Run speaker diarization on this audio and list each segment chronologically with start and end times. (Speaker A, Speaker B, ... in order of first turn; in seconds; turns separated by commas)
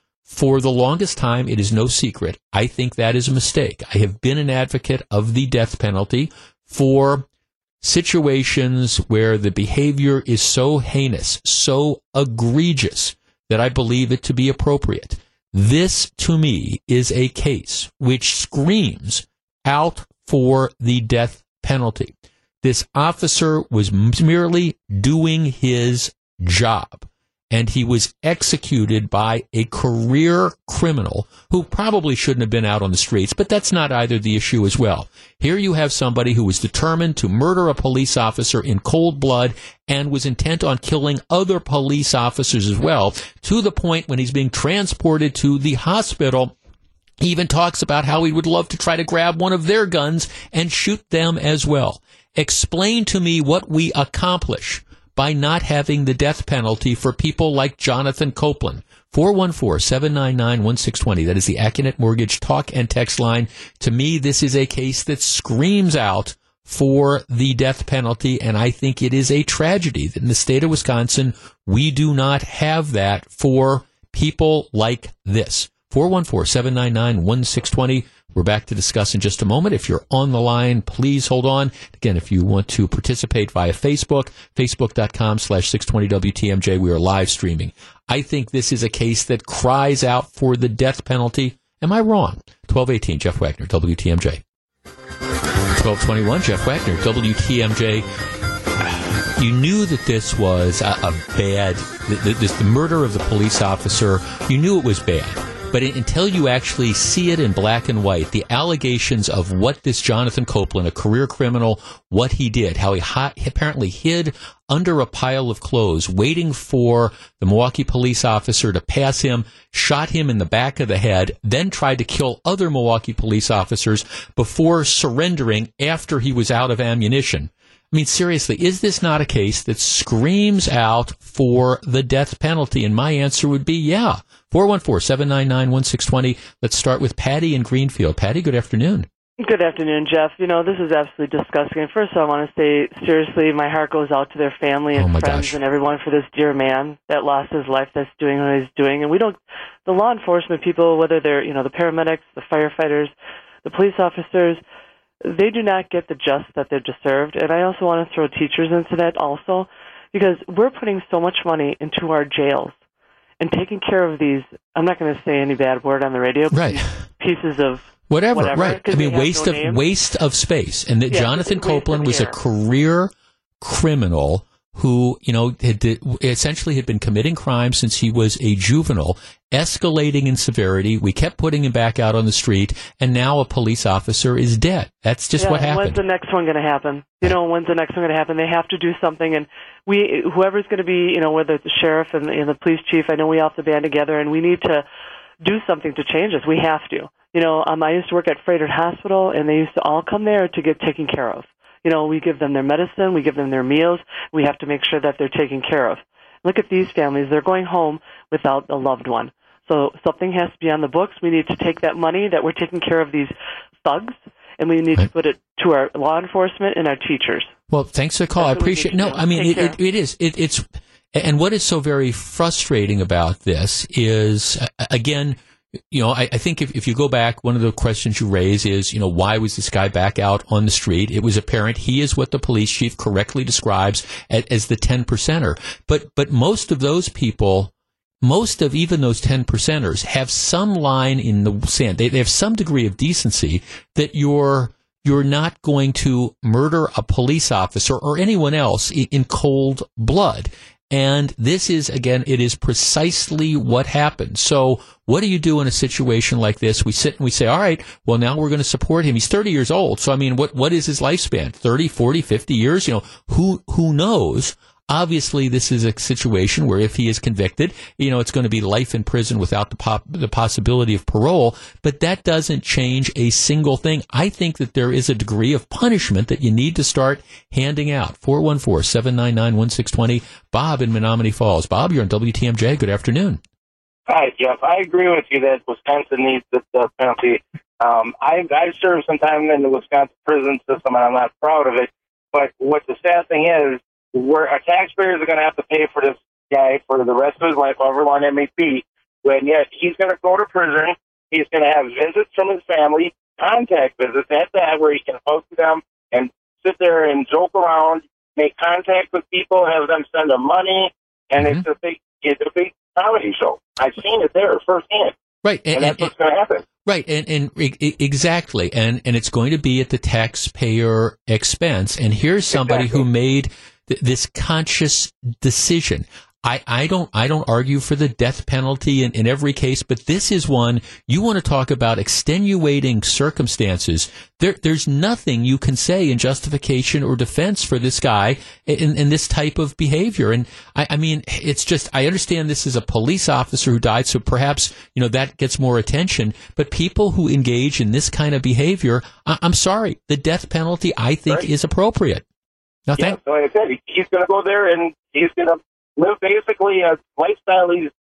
Speaker A: 0.3-7.3, Speaker A: 7.8-46.5, Speaker A: 47.2-94.4, Speaker A: 95.8-98.1, Speaker A: 98.8-139.1, Speaker B: 139.4-153.1, Speaker A: 144.9-145.6, Speaker B: 153.6-154.6, Speaker B: 155.2-162.8, Speaker B: 163.4-169.8, Speaker A: 166.5-166.8, Speaker A: 168.1-186.0, Speaker B: 171.1-172.4, Speaker B: 185.4-194.8, Speaker B: 195.4-213.3, Speaker B: 213.8-217.5, Speaker A: 217.7-225.4, Speaker B: 218.4-219.8, Speaker A: 225.9-283.4, Speaker C: 284.1-315.1, Speaker A: 315.4-316.1, Speaker C: 315.8-316.6, Speaker A: 316.9-352.2, Speaker A: 352.9-353.2, Speaker C: 353.0-357.9